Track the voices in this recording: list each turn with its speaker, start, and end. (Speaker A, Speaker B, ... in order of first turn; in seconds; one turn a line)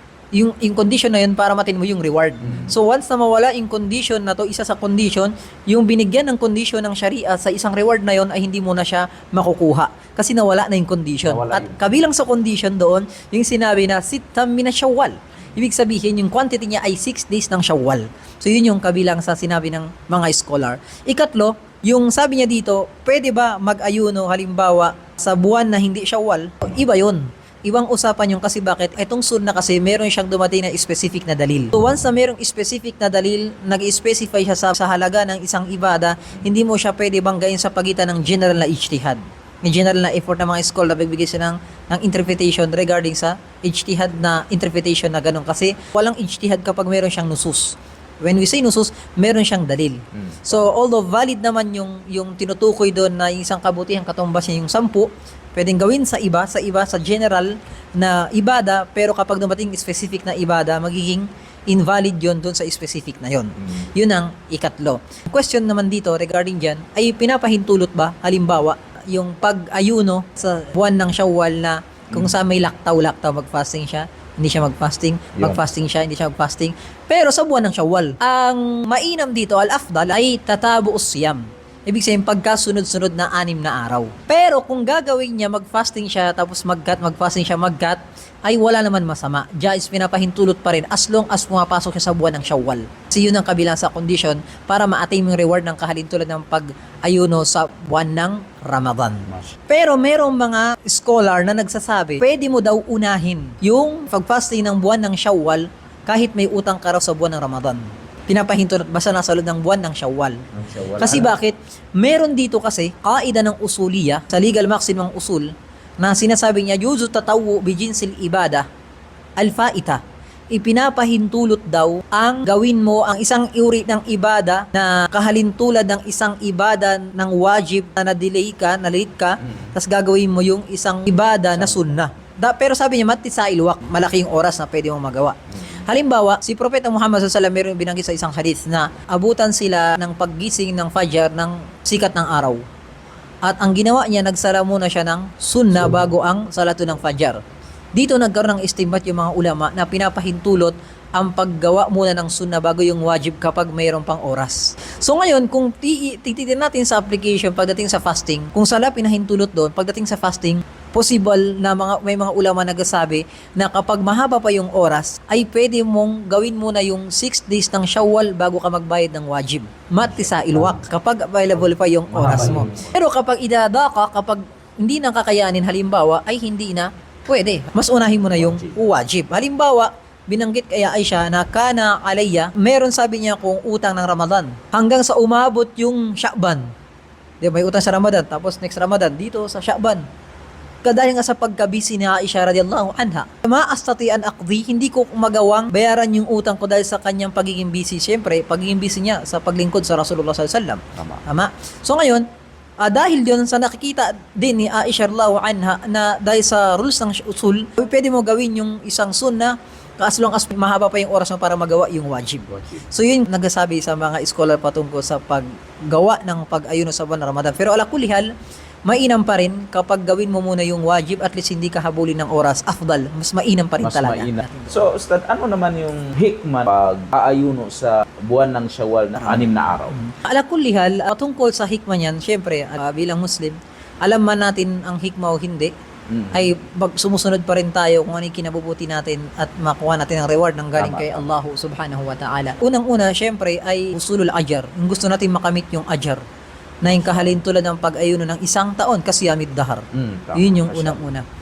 Speaker A: 0.3-110.4
Speaker B: 2.4-2.7
Speaker B: 11.2-11.9
Speaker B: 50.1-50.6
Speaker B: 75.3-75.6
Speaker B: 110.5-111.3
Speaker A: 111.0-118.6
Speaker A: 119.4-142.6
Speaker B: 129.4-129.7
Speaker A: 143.4-147.4
Speaker A: 147.9-186.7
Speaker B: 170.1-170.8
Speaker B: 172.1-172.9
Speaker B: 178.4-178.8
Speaker A: 187.4-190.0
Speaker A: 190.8-202.2
Speaker B: 200.9-201.2
Speaker A: 202.8-218.3
Speaker B: 212.5-212.8
Speaker A: 218.9-224.8
Speaker B: 223.8-230.0
Speaker A: 229.2-235.7
Speaker B: 236.1-236.5
Speaker A: 236.3-246.2
Speaker B: 240.8-241.3
Speaker A: 246.8-249.8
Speaker B: 246.8-247.4
Speaker B: 249.9-251.1
Speaker A: 250.3-251.2